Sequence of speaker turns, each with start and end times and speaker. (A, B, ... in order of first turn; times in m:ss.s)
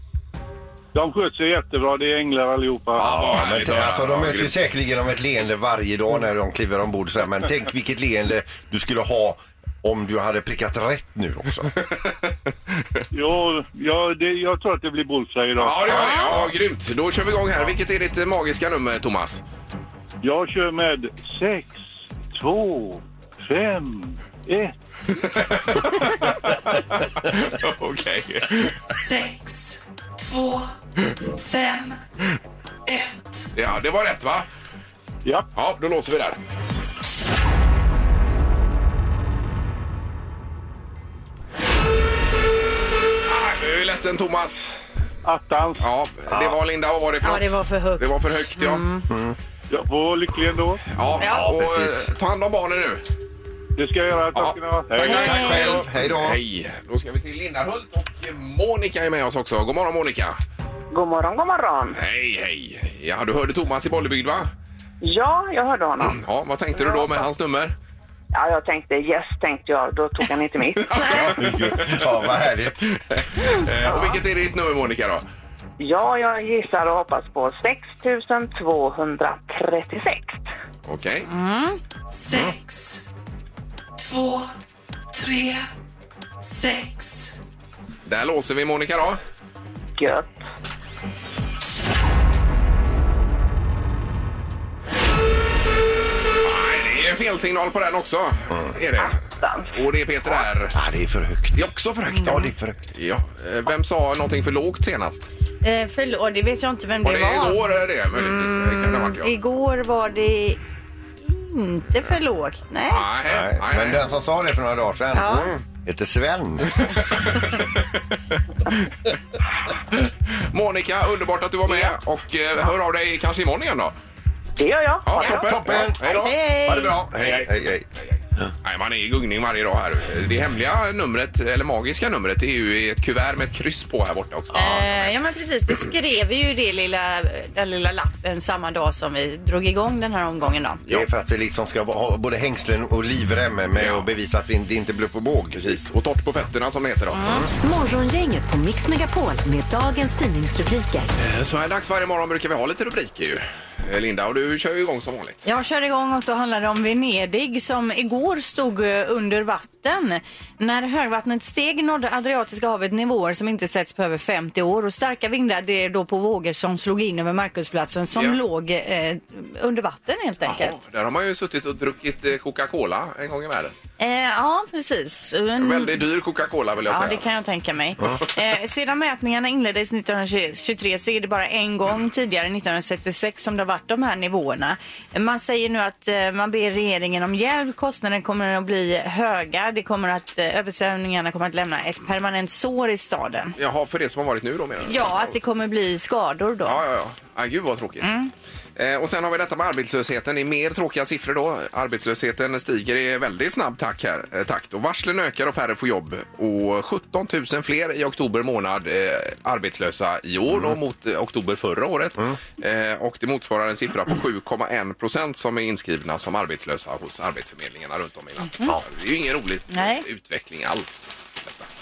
0:00.9-0:03.0 A
0:03.0-0:04.5 B
0:03.0-0:11.7 C
0:13.1-0:16.2 A
0:15.6-0:19.4 B
0:15.9-0:16.3 D
0:20.2-0:24.8 A
0:25.4-0:28.8 B
0:28.9-0:30.8 E
0:31.4-0:32.0 E
0:32.9-0:33.5 E
0:33.6-0:34.5 B
0:35.6-0:36.4 B
0:43.3-0:44.8 B
0:45.2-0:45.9 A
0:45.8-0:48.8 B
0:46.3-0:46.6 C
0:47.2-0:49.0 D
0:49.1-0:49.4 C
0:49.7-0:50.8 A
0:50.9-0:53.0 B
0:51.2-0:51.5 D
0:51.2-0:52.1 C
0:53.8-0:55.6 A
0:54.4-1:00.4 B
0:55.1-0:55.8 D
0:55.2-0:56.4 C
1:00.9-1:02.0 F
1:01.9-1:04.5 B
1:05.0-1:06.2 F
1:06.0-1:07.7 B
1:06.7-1:07.3 F
1:08.3-1:11.1 F
1:10.8-1:12.3 B
1:11.1-1:12.9 C
1:12.9-1:15.2 B
1:15.8-1:20.5 F
1:20.9-1:21.3 B
1:21.3-1:21.8 D
1:22.1-1:23.0 E
1:24.0-1:24.5 E
1:25.1-1:25.7 E
1:26.4-1:27.4 E
1:28.0-1:29.2 B
1:30.0-1:30.4 F
1:36.4-1:40.8 B
1:39.4-1:39.7 F
1:40.7-1:42.9 C
1:41.6-1:45.3 B
1:45.6-1:47.6 D
1:47.0-1:49.3 B
1:48.1-1:50.6 D
1:51.2-1:53.1 D
1:52.9-1:54.0 B
1:53.3-1:57.3 C
1:55.2-1:55.5 D
1:56.8-1:57.8 B
2:00.0-2:03.9 B
2:04.6-2:05.5 F
2:05.0-2:06.3 B
2:05.2-2:07.9 C
2:06.0-2:07.0 D
2:07.2-2:07.5 B
2:08.6-2:15.1 B
2:14.5-2:20.8 D
2:20.9-2:25.6 C
2:23.8-2:24.1 B
2:25.5-2:27.5 B
2:27.1-2:27.5 D
2:27.6-2:31.1 G
2:31.2-2:35.4 B
2:35.4-2:50.8 D
2:50.4-2:53.8 B
2:54.0-2:56.0 D
2:55.6-2:57.2 B
2:56.9-3:13.6 D
3:13.6-3:15.3 B
3:14.8-3:16.8 D
3:16.6-3:18.1 B
3:18.0-3:18.3 D
3:18.8-3:41.7 B
3:39.7-3:40.0 D